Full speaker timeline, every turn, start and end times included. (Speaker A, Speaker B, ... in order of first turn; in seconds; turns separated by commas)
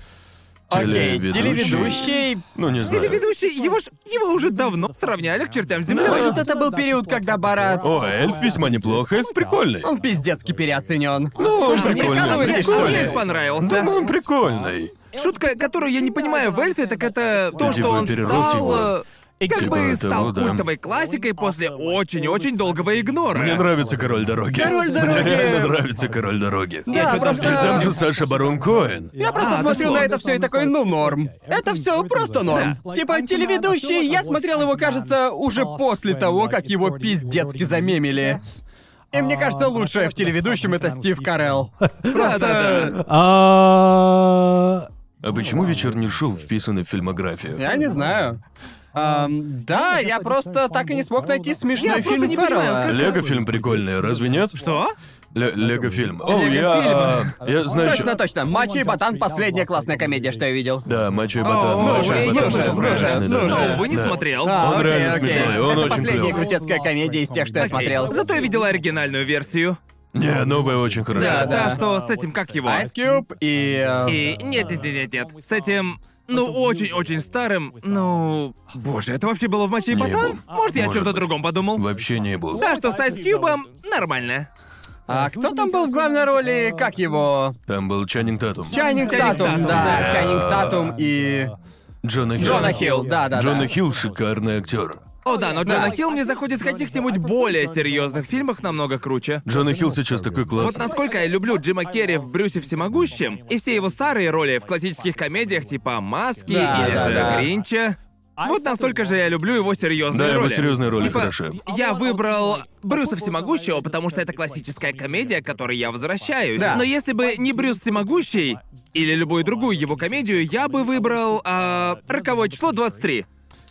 Speaker A: 0.7-2.4, Speaker B: 0.7-3.2, Speaker C: 2.8-6.4, Speaker A: 5.9-7.9, Speaker B: 6.0-6.4, Speaker B: 7.8-9.9, Speaker A: 9.8-13.2, Speaker B: 11.4-14.9, Speaker C: 11.5-13.9, Speaker C: 15.1-23.7, Speaker B: 17.5-19.0, Speaker B: 19.5-20.7, Speaker B: 23.3-29.1, Speaker A: 24.6-25.8, Speaker A: 26.9-27.9, Speaker C: 26.9-27.9, Speaker A: 29.2-38.4, Speaker C: 29.4-30.1, Speaker C: 32.5-32.8, Speaker A: 39.1-43.0, Speaker C: 42.1-43.0, Speaker B: 45.2-47.6, Speaker A: 47.6-48.4, Speaker A: 48.9-53.0, Speaker C: 51.8-53.2, Speaker B: 52.9-54.6, Speaker C: 54.6-54.9, Speaker B: 55.3-58.1, Speaker C: 56.3-57.3, Speaker A: 57.7-60.9, Speaker B: 60.9-66.5, Speaker C: 61.4-65.6, Speaker A: 61.8-63.9, Speaker A: 64.4-68.2, Speaker C: 67.6-69.8, Speaker B: 70.1-71.7, Speaker A: 71.2-71.8, Speaker C: 71.2-72.9, Speaker A: 72.6-74.2, Speaker C: 74.1-81.8, Speaker B: 79.9-82.7, Speaker C: 82.5-84.5, Speaker A: 85.1-87.6, Speaker B: 87.7-88.8, Speaker A: 88.7-91.5, Speaker C: 88.9-90.3, Speaker B: 89.6-90.9, Speaker B: 92.0-95.0, Speaker A: 92.4-93.7, Speaker C: 92.5-92.8, Speaker C: 95.2-99.4, Speaker A: 95.7-96.0, Speaker B: 99.5-100.9, Speaker C: 100.6-123.3, Speaker A: 106.5-107.5, Speaker B: 106.7-107.4, Speaker B: 110.1-111.6, Speaker A: 116.6-116.9